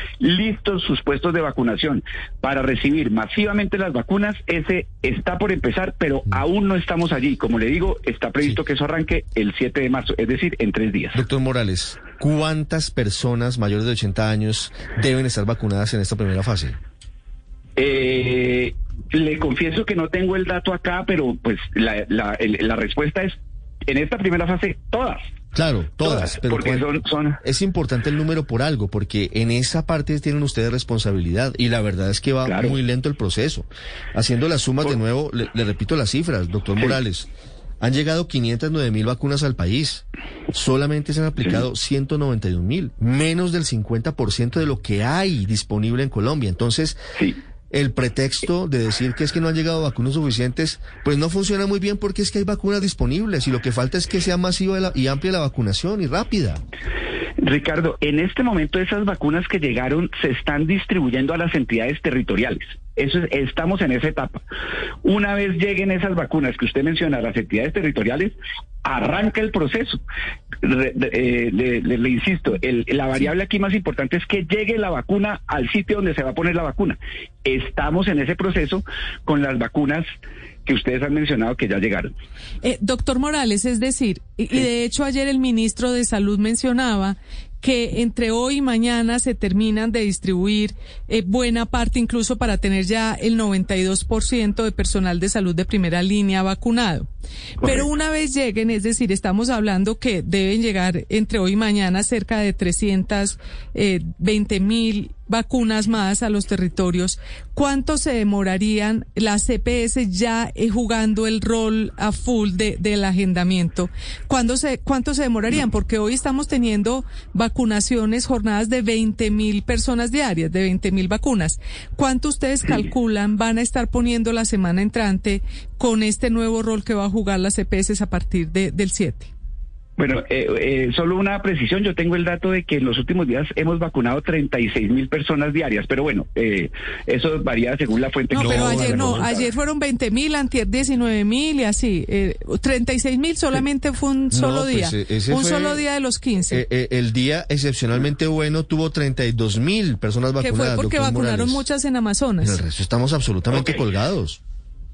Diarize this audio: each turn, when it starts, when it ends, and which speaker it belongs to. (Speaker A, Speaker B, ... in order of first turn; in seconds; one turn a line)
Speaker A: 0.2-11.2
Speaker B: 11.2-16.8
Speaker A: 17.8-25.2
Speaker B: 25.5-26.9
Speaker A: 26.0-27.4
Speaker B: 27.4-37.3
Speaker A: 32.5-32.8
Speaker B: 37.8-47.0
Speaker B: 47.7-56.6
Speaker A: 57.4-64.4
Speaker A: 65.0-70.0
Speaker A: 70.6-80.1
Speaker A: 80.7-82.1
Speaker C: 82.6-97.1
Speaker C: 97.6-129.3
Speaker A: 97.6-97.9
Speaker A: 130.0-139.5
Speaker C: 138.3-146.6
Speaker B: 138.3-139.3
Speaker B: 144.3-145.8
Speaker B: 146.5-151.6
Speaker C: 150.4-152.6
Speaker B: 152.4-154.4
Speaker A: 153.5-153.8